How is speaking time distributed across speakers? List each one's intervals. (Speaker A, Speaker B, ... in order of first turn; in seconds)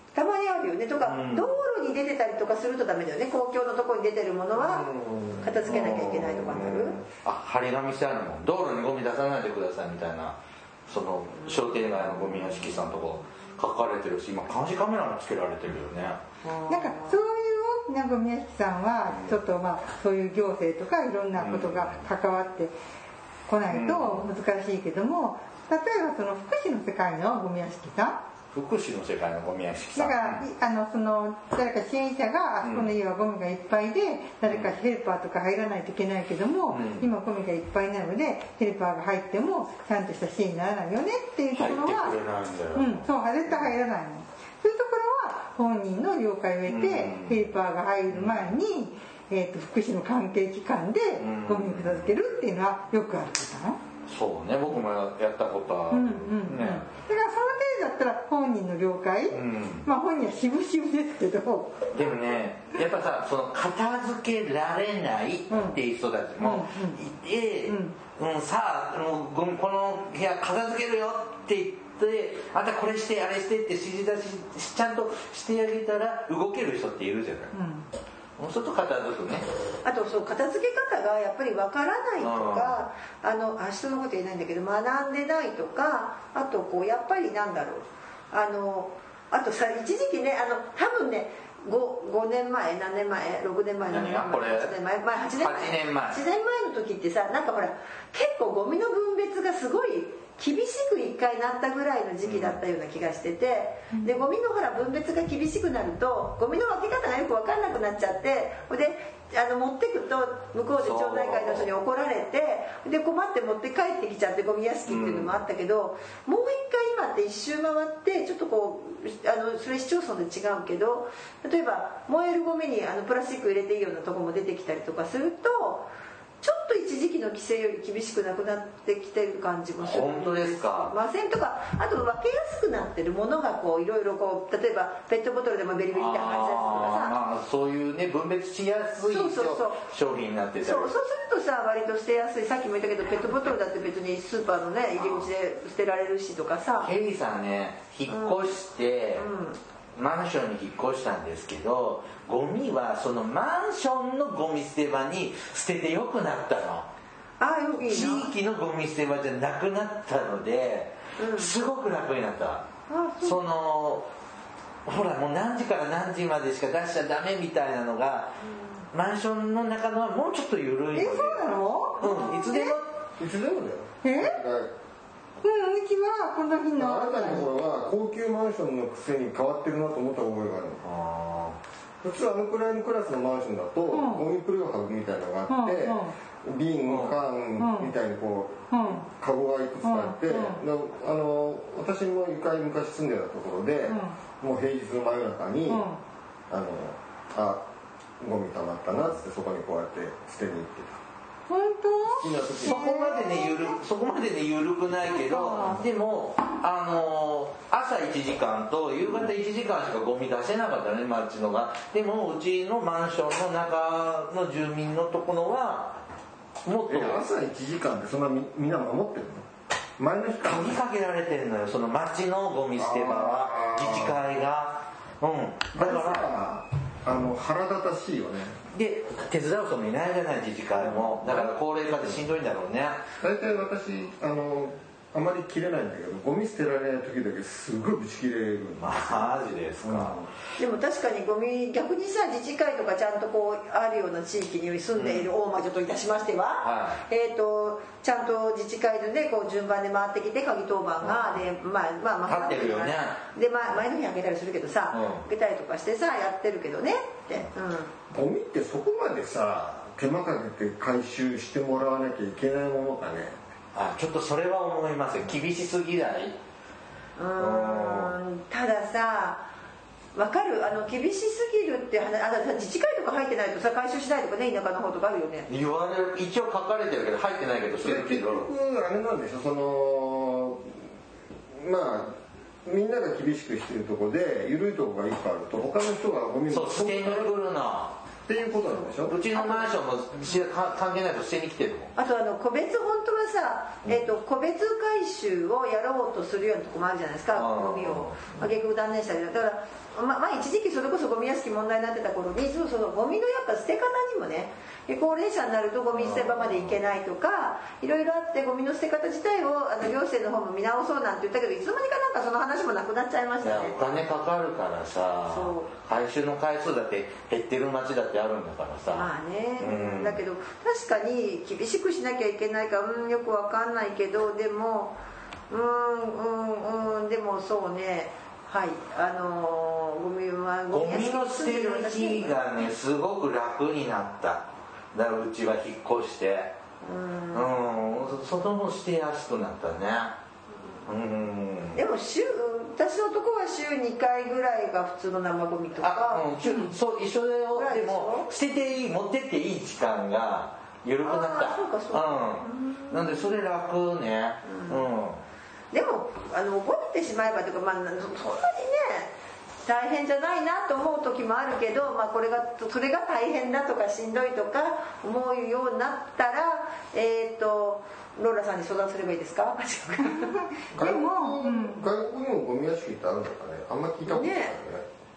Speaker A: 0.1-4.9, 5.4-7.0, 16.4-17.2, 79.8-125.9, 126.4-137.2, 139.1-139.8, 140.6-146.9, 148.1-148.6, 149.2-149.6, 157.4-158.3, 161.2-161.5, 162.9-163.4, 240.6-257.9, 267.2-269.5, 270.1-275.5, 289.3-289.7, 292.0-313.8, 315.3-315.7, 318.9-325.0, 325.5-332.5, 336.8-337.5, 341.8-346.7, 347.6-348.3, 351.0-353.3, 354.4-354.9, 355.7-359.1, 359.6-370.4, 374.1-374.6
Speaker B: 1.0-1.6, 5.7-6.5, 7.2-16.2, 19.1-19.4, 21.4-22.1, 23.7-24.3, 28.5-30.5, 32.6-32.9, 34.5-34.7, 36.7-37.1, 41.5-43.7, 46.7-47.5, 48.1-48.5, 51.2-52.1, 54.1-56.9, 59.3-59.9, 61.9-77.5, 78.4-79.5, 82.2-82.8, 93.9-94.7, 95.3-96.2, 102.2-102.6, 110.8-111.7, 114.9-115.4, 129.8-130.9, 135.9-140.9, 145.0-145.3, 146.8-149.2, 150.0-156.9, 157.8-162.7, 163.2-164.1, 164.9-168.4, 168.9-171.5, 172.0-172.9, 180.8-181.6, 186.9-187.2, 202.6-216.0, 216.7-217.2, 220.4-226.3, 228.7-233.0, 238.8-240.2, 245.0-245.3, 246.6-247.0, 251.0-251.4, 252.3-253.2, 254.9-255.2, 263.7-266.4, 267.4-268.1, 275.5-278.5, 286.5-288.0, 289.1-291.9, 297.4-298.4, 305.9-306.8, 313.4-320.2, 330.7-336.5, 337.3-340.2, 340.9-341.8, 345.8-355.2
Speaker C: 4.6-7.1, 173.2-174.7, 176.8-180.8, 182.0-195.9, 196.5-197.7, 198.2-201.0, 202.2-203.0, 216.9-219.5, 220.0-220.8, 222.8-224.2, 225.8-228.6, 230.8-232.2, 233.2-240.3, 258.1-263.4, 277.8-280.8, 281.5-287.3, 288.3-289.2, 370.7-374.9
Speaker D: 16.7-22.8, 23.5-28.2, 29.9-42.2, 42.7-53.8, 55.9-61.9, 65.5-65.8, 66.4-67.0, 67.7-68.0, 77.5-77.9, 170.9-172.8, 174.0-174.4, 175.4-177.5, 183.9-184.2, 185.5-186.2, 187.6-187.9, 188.7-189.1, 189.8-190.6, 193.9-194.2, 195.7-196.0, 201.5-203.8, 205.1-205.8, 370.0-371.9